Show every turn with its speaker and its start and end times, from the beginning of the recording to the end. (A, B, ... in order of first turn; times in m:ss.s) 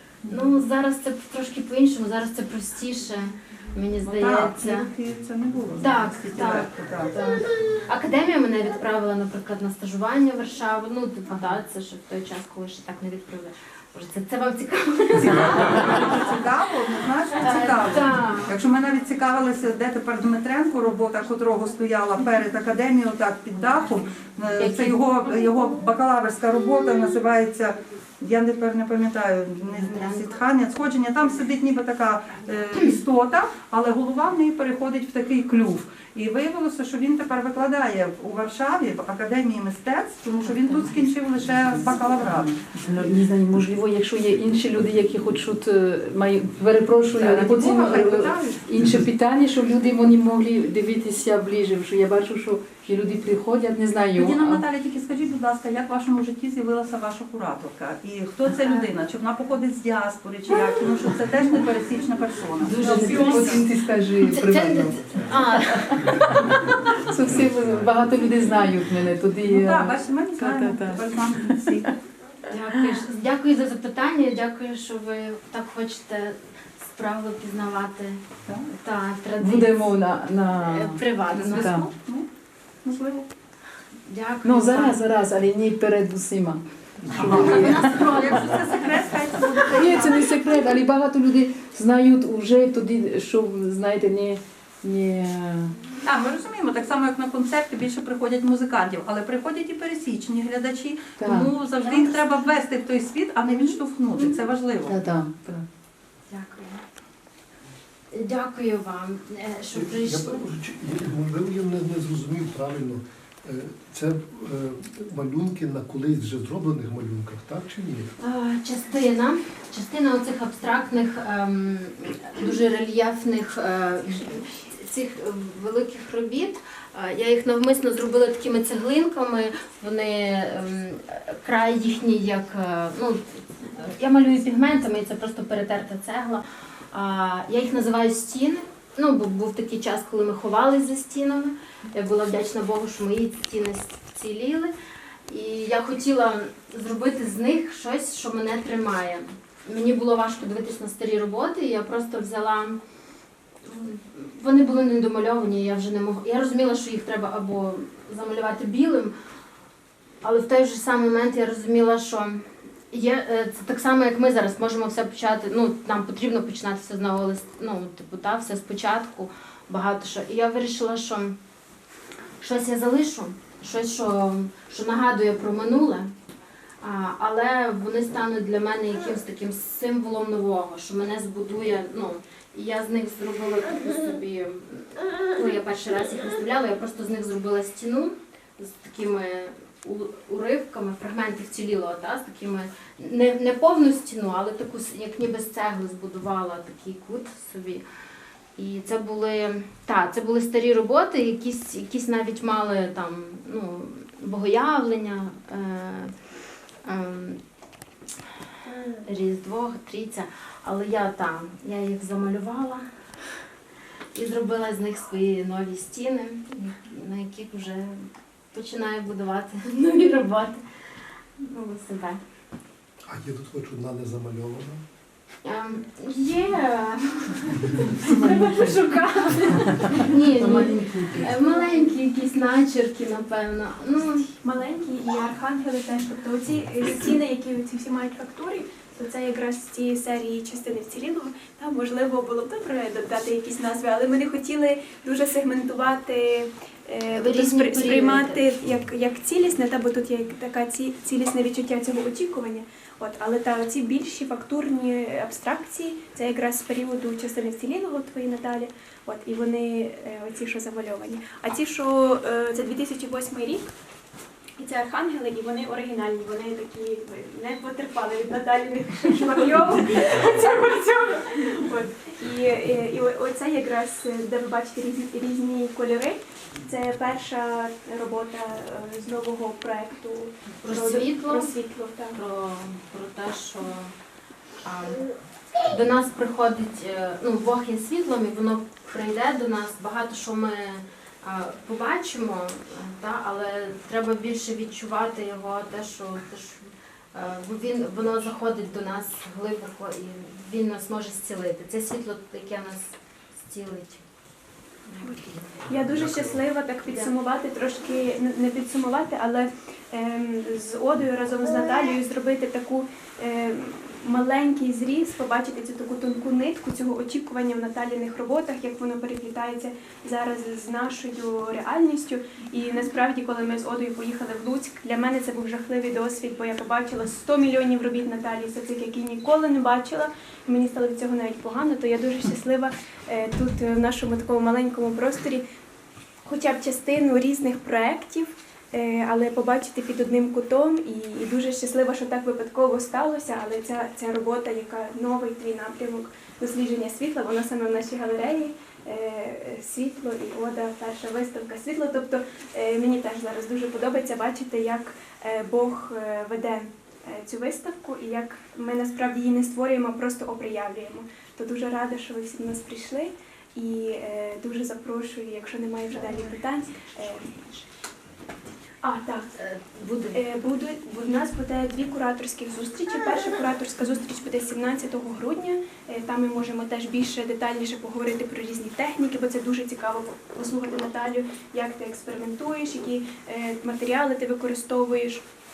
0:00.2-0:00.6 A
0:00.3-0:04.9 B
0:04.0-0:07.1 A
0:05.8-0:16.4 B
0:15.2-0:42.7 A
0:17.3-0:18.6 B
0:24.6-0:25.0 B
0:30.0-0:30.2 B
0:42.7-0:54.6 C
0:47.1-0:48.7 A
0:54.1-1:03.6 A
1:02.6-1:05.0 C
1:02.8-1:03.7 B
1:04.2-1:06.2 B
1:05.7-1:11.6 C
1:09.5-1:11.9 A
1:12.5-1:19.9 B
1:19.4-1:21.9 C
1:20.6-1:21.8 B
1:21.3-1:22.3 A
1:22.8-1:23.2 A
1:24.1-1:25.0 B
1:24.4-1:28.2 C
1:27.0-1:30.3 A
1:27.2-1:29.0 B
1:29.7-1:35.8 C
1:36.0-1:45.0 A
1:41.2-1:41.5 C
1:44.9-1:45.7 C
1:46.3-1:46.8 B
1:48.1-1:50.4 B
1:49.7-1:58.2 D
1:58.2-2:24.7 B
2:25.2-2:32.8 B
2:33.6-2:39.2 B
2:40.2-2:51.4 B
2:52.4-2:56.1 B
2:56.8-3:17.8 B
3:18.6-3:26.1 B
3:26.8-3:27.4 B
3:29.0-3:32.9 B
3:34.1-3:40.6 B
3:41.4-3:42.2 B
3:43.0-3:44.8 D
3:45.4-3:54.3 B
3:48.0-3:48.7 C
3:49.7-3:51.3 C
3:54.4-4:23.7 E
4:07.1-4:08.4 B
4:24.6-4:42.2 E
4:40.6-4:41.5 B
4:42.1-4:43.9 B
4:44.6-4:45.0 B
4:45.6-5:04.0 B
5:04.9-5:05.5 B
5:05.7-5:35.4 E
5:36.2-6:07.7 E
6:08.8-6:09.3 E
6:09.4-6:10.2 B
6:10.1-6:25.2 E